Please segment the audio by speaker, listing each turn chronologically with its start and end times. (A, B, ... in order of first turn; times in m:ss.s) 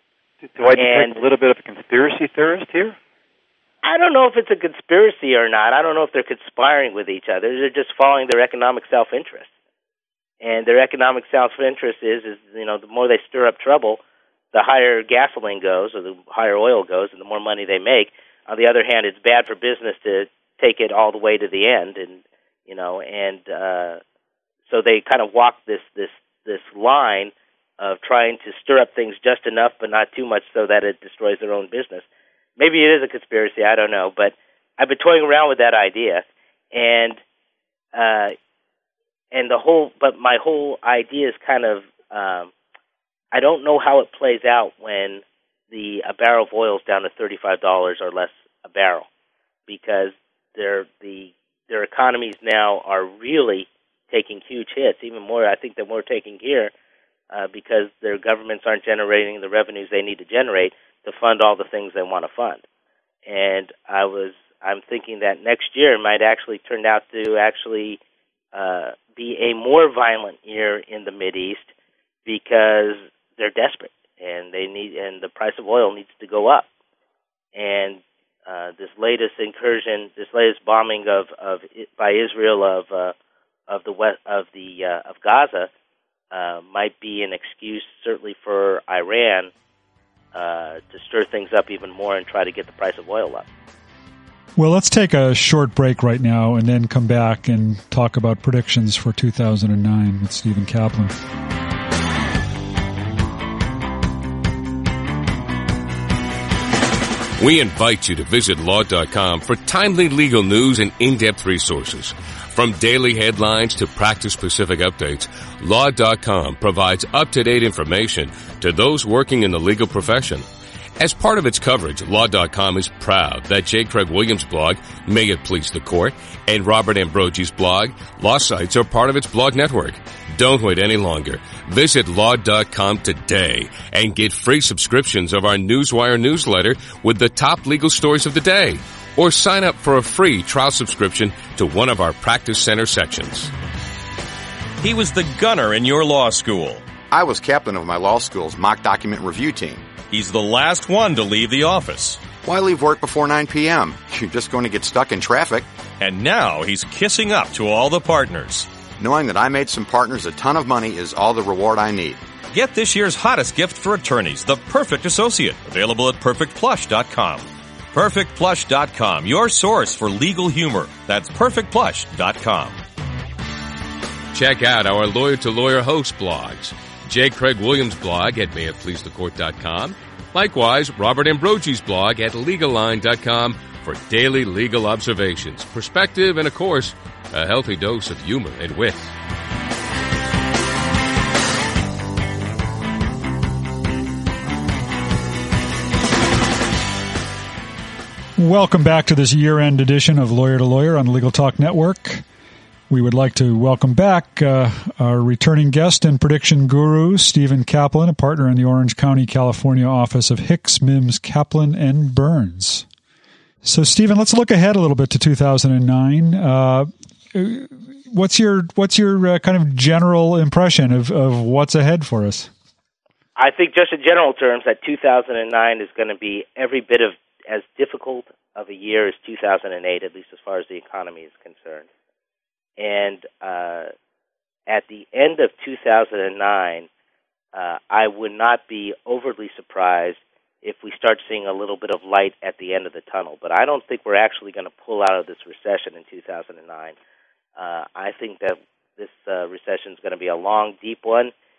0:00.4-0:03.0 A
0:00.8-0:01.2 B
0:03.8-0:09.5 B
0:10.4-0:14.0 B
0:14.5-0:24.0 B
0:24.7-0:32.0 B
0:32.6-0:37.2 B
0:37.9-0:38.3 B
0:39.3-0:42.5 B
0:43.3-0:49.1 B
0:49.7-0:56.7 B
0:57.3-1:02.6 B
1:03.2-1:08.0 B
1:08.5-1:11.7 B
1:12.2-1:16.7 B
1:17.5-1:23.1 B
1:23.7-1:25.7 B
1:26.3-1:29.5 B
1:30.3-1:33.5 B
1:34.6-1:41.2 C
1:47.4-2:00.4 D
2:01.0-2:23.5 D
2:24.8-2:26.9 E
2:27.1-2:29.9 F
2:30.1-2:32.3 E
2:32.4-2:35.6 F
2:36.0-2:38.7 E
2:39.0-2:42.2 F
2:42.5-2:52.8 E
2:54.3-3:09.1 D
3:18.4-3:22.2 C
3:22.9-3:32.8 C
3:33.6-3:42.5 C
3:43.4-3:51.9 B
3:52.8-3:53.9 B
3:54.7-3:56.9 B
3:57.5-4:06.9 B
4:07.6-4:11.3 B